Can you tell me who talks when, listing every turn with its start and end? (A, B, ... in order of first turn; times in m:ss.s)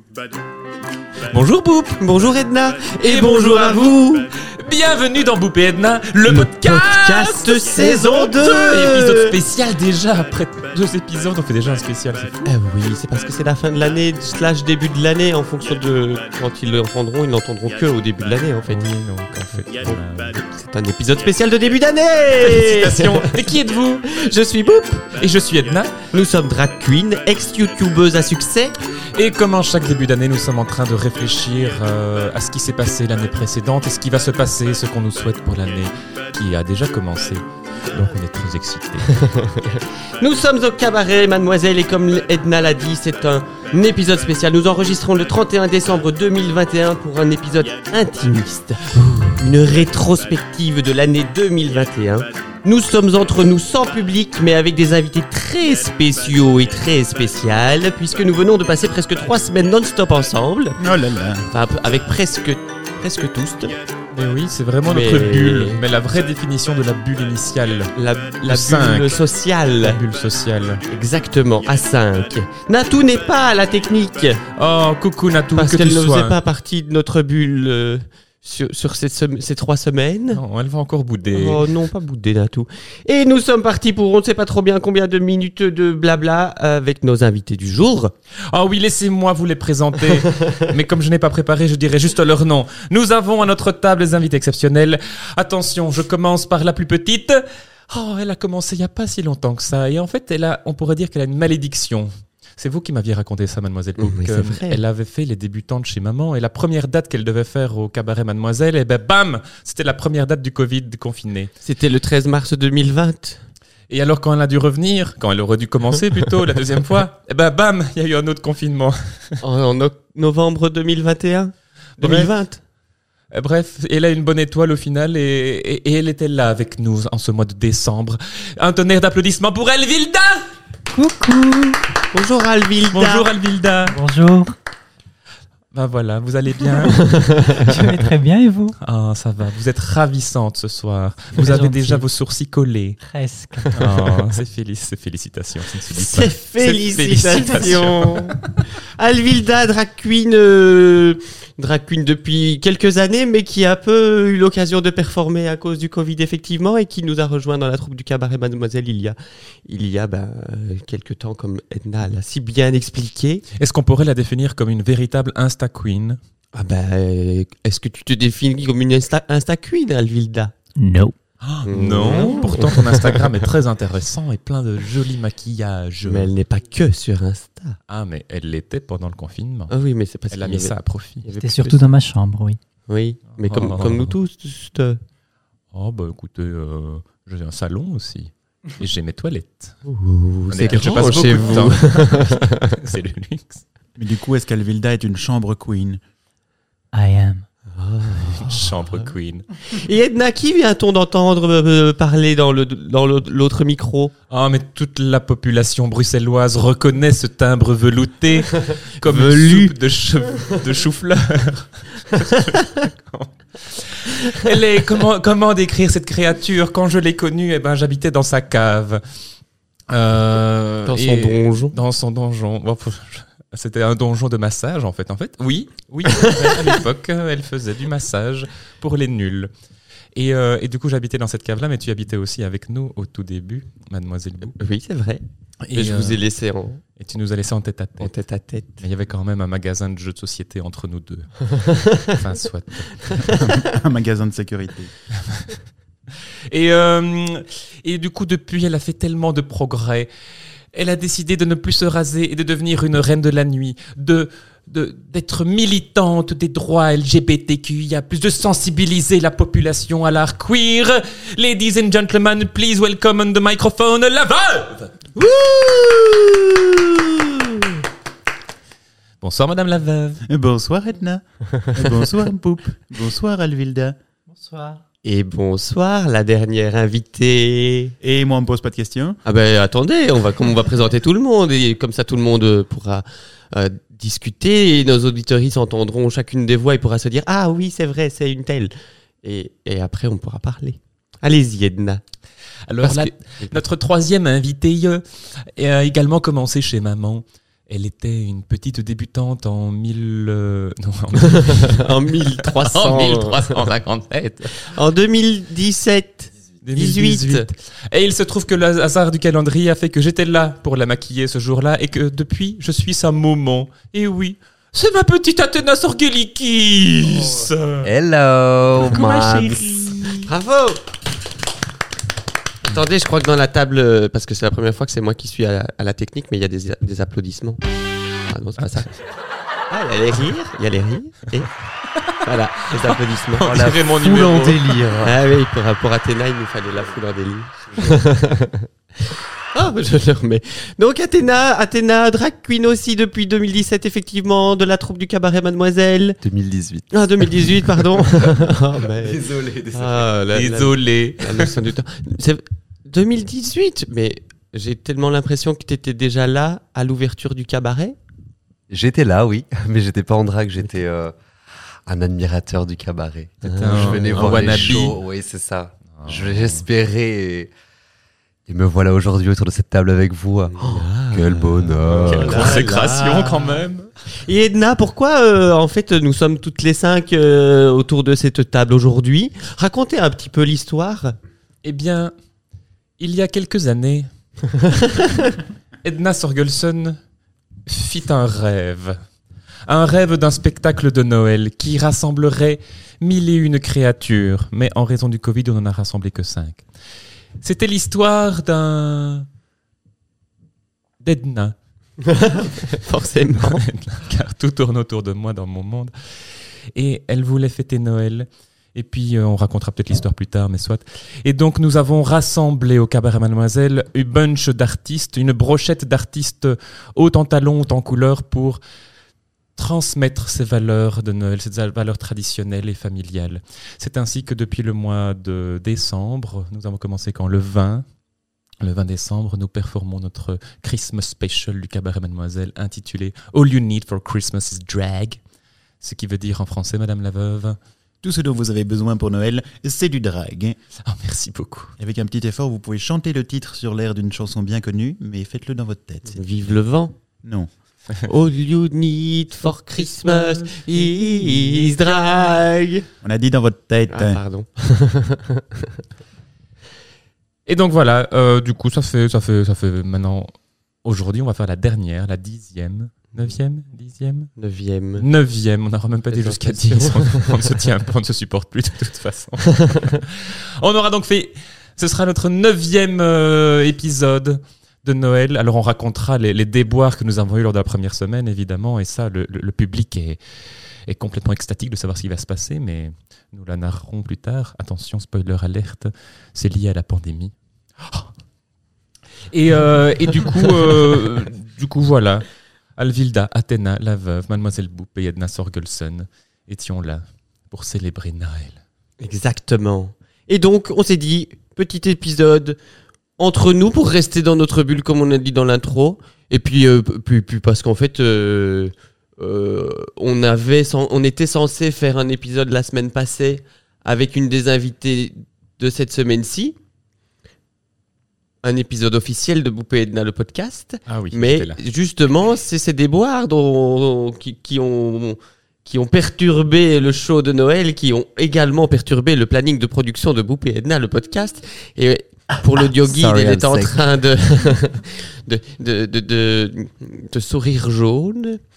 0:01.2-0:02.0 A
0:02.0-0:04.2 B
0:03.0-0:12.5 A
0:06.3-0:09.3 B
0:12.4-0:18.8 B
0:18.7-0:20.4 A
0:19.8-0:23.4 B
0:22.4-0:24.0 A
0:24.0-0:25.1 B
0:25.2-0:26.0 A
0:26.1-0:28.7 B
0:29.1-0:39.3 A
0:39.2-1:00.8 B
1:00.8-1:01.5 C
1:01.5-1:03.8 B
1:04.1-1:09.2 A
1:04.8-1:05.8 B
1:08.0-1:10.0 B
1:09.8-1:10.8 A
1:10.9-1:14.4 B
1:14.6-1:16.4 A
1:15.6-1:20.4 B
1:20.3-1:21.6 A
1:21.3-1:28.1 B
1:28.5-1:51.5 A
1:44.0-1:44.8 B
1:51.6-1:53.4 B
1:53.9-1:59.4 A
1:59.4-2:02.6 B
2:02.0-2:02.3 A
2:03.3-2:10.4 A
2:10.9-2:11.8 D
2:12.1-2:13.3 B
2:12.9-2:14.0 A
2:13.8-2:14.5 D
2:15.7-2:17.0 A
2:16.9-2:17.6 B
2:17.5-2:18.8 D
2:18.8-2:23.0 A
2:21.4-2:22.0 D
2:23.0-2:23.8 D
2:23.7-2:28.4 A
2:25.9-2:43.4 B
2:43.5-2:46.2 A
2:46.5-2:50.5 B
2:50.8-2:51.1 D
2:51.4-2:56.3 A
2:51.6-2:53.3 B
2:56.0-2:57.8 B
2:57.9-2:59.7 A
2:59.7-3:01.9 B
3:00.3-3:01.2 A
3:01.4-3:02.6 D
3:02.9-3:05.0 B
3:03.4-3:04.2 A
3:05.7-3:09.8 A
3:09.9-3:12.8 B
3:10.5-3:13.6 A
3:14.0-3:16.0 C
3:16.9-3:17.4 D
3:17.7-3:18.6 B
3:18.2-3:19.5 A
3:19.7-3:24.1 B
3:24.3-3:39.0 A
3:29.0-3:29.7 B
3:39.9-3:49.5 A
3:40.9-3:41.8 B
3:46.1-3:46.8 B
3:50.1-3:54.6 A
3:54.6-3:56.8 B
3:55.6-3:56.2 A
3:57.0-3:58.1 A
3:58.0-3:58.8 B
3:58.8-4:03.2 A
4:01.7-4:02.1 B
4:03.0-4:03.6 B
4:03.3-4:04.9 C
4:05.2-4:05.6 A
4:06.5-4:10.1 A
4:10.7-4:24.9 A
4:25.2-4:27.7 B
4:29.2-4:30.2 A
4:30.3-4:34.0 C
4:34.3-4:34.8 D
4:35.0-4:37.9 B
4:38.0-4:39.2 C
4:39.2-4:48.7 B
4:49.2-4:52.0 B
4:52.7-4:55.0 A
4:52.8-4:53.5 B
4:55.5-5:04.7 A
5:01.2-5:03.7 B
5:04.6-5:07.5 B
5:06.6-5:17.9 A
5:17.8-5:19.7 E
5:18.8-5:20.3 A
5:20.3-5:20.8 B
5:22.6-5:27.6 B
5:28.3-5:28.9 B
5:29.7-5:31.5 B
5:32.2-5:33.5 B
5:33.4-5:34.6 A
5:33.4-5:35.2 E
5:35.0-5:46.2 B
5:46.2-5:50.1 E
5:46.9-5:58.0 B
5:50.3-5:51.5 A
5:58.7-6:01.1 E
6:01.8-6:07.5 E
6:03.4-6:04.4 B
6:03.4-6:05.0 A
6:06.0-6:06.6 A
6:08.5-6:12.6 E
6:10.5-6:13.5 B
6:11.9-6:13.9 A
6:14.2-6:21.1 B
6:21.6-6:22.1 A
6:23.0-6:24.1 A
6:25.8-6:27.0 A
6:27.6-6:29.0 A
6:29.6-6:36.6 A
6:37.4-6:39.3 A
6:41.0-6:41.6 A
6:42.0-6:43.6 B
6:43.3-6:45.9 A
6:46.7-6:58.6 A
6:59.6-7:07.8 A
7:08.6-7:15.2 A
7:15.8-7:17.6 A
7:18.0-7:20.6 C
7:20.8-7:21.7 A
7:21.8-7:26.2 C
7:26.1-7:26.9 B
7:27.2-7:27.5 C
7:28.0-7:32.9 B
7:29.5-7:32.2 A
7:33.0-7:34.2 C
7:33.9-7:35.7 B
7:37.4-7:40.3 A
7:40.8-7:44.3 A
7:44.4-7:45.0 B
7:45.0-8:00.2 A
7:46.1-7:47.4 B
8:00.9-8:08.1 A
8:09.3-8:12.2 A
8:12.8-8:18.6 A
8:19.0-8:22.6 B
8:23.2-8:36.5 B
8:38.4-8:58.4 B
8:40.9-8:41.6 A
8:52.4-8:53.8 E